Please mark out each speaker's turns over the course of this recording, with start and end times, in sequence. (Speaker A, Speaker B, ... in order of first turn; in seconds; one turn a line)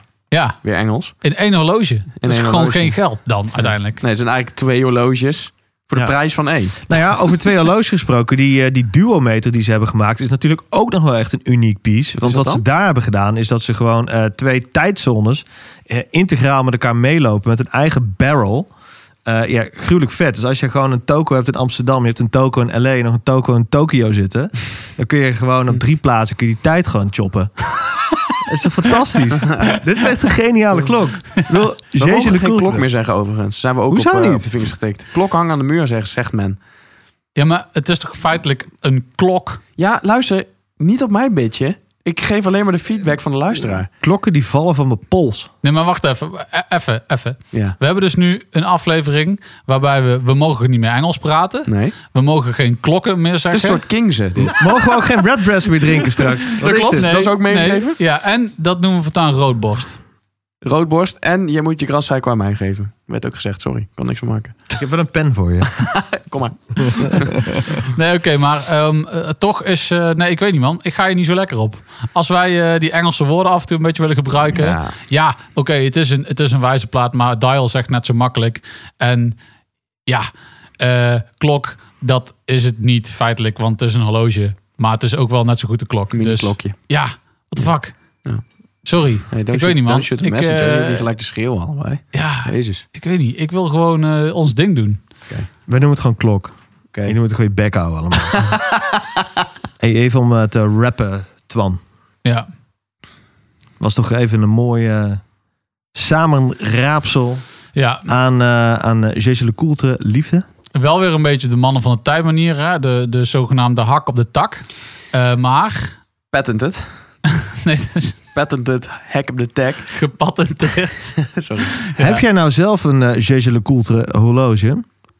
Speaker A: 0.3-0.6
Speaker B: 0.6-1.1
Speaker A: 1.2-4.0
Speaker B: 2.2-3.0
Speaker B: 3.6-6.8
Speaker C: 6.9-18.7
Speaker B: 12.2-12.6
Speaker C: 19.2-27.6
Speaker C: 28.4-32.8
Speaker B: 29.4-29.7
Speaker B: 32.0-36.6
Speaker C: 33.9-34.5
Speaker A: 37.4-39.6
Speaker B: 39.8-43.9
Speaker C: 44.0-45.5
Speaker A: 45.6-53.8
Speaker B: 47.5-47.8
Speaker B: 51.7-51.9
Speaker B: 53.5-54.6
Speaker C: 54.5-57.1
Speaker B: 56.6-58.0
Speaker A: 56.9-60.0
Speaker B: 60.6-64.7
Speaker C: 64.7-65.7
Speaker B: 65.7-67.4
Speaker C: 66.8-67.6
Speaker A: 67.9-79.4
Speaker B: 74.4-75.0
Speaker A: 80.8-88.0
Speaker B: 86.1-86.8
Speaker A: 88.8-91.1
Speaker B: 89.3-92.8
Speaker A: 92.1-95.0
Speaker C: 95.7-98.5
Speaker B: 98.3-98.8
Speaker C: 99.8-101.8
Speaker C: 103.8-105.2
Speaker C: 105.9-107.4
Speaker A: 107.7-108.0
Speaker C: 108.0-110.4
Speaker A: 110.7-115.9
Speaker B: 116.3-116.9
Speaker A: 117.5-118.2
Speaker B: 118.3-119.9
Speaker A: 119.9-121.2
Speaker B: 121.2-121.7
Speaker A: 121.9-122.2
Speaker C: 122.0-124.9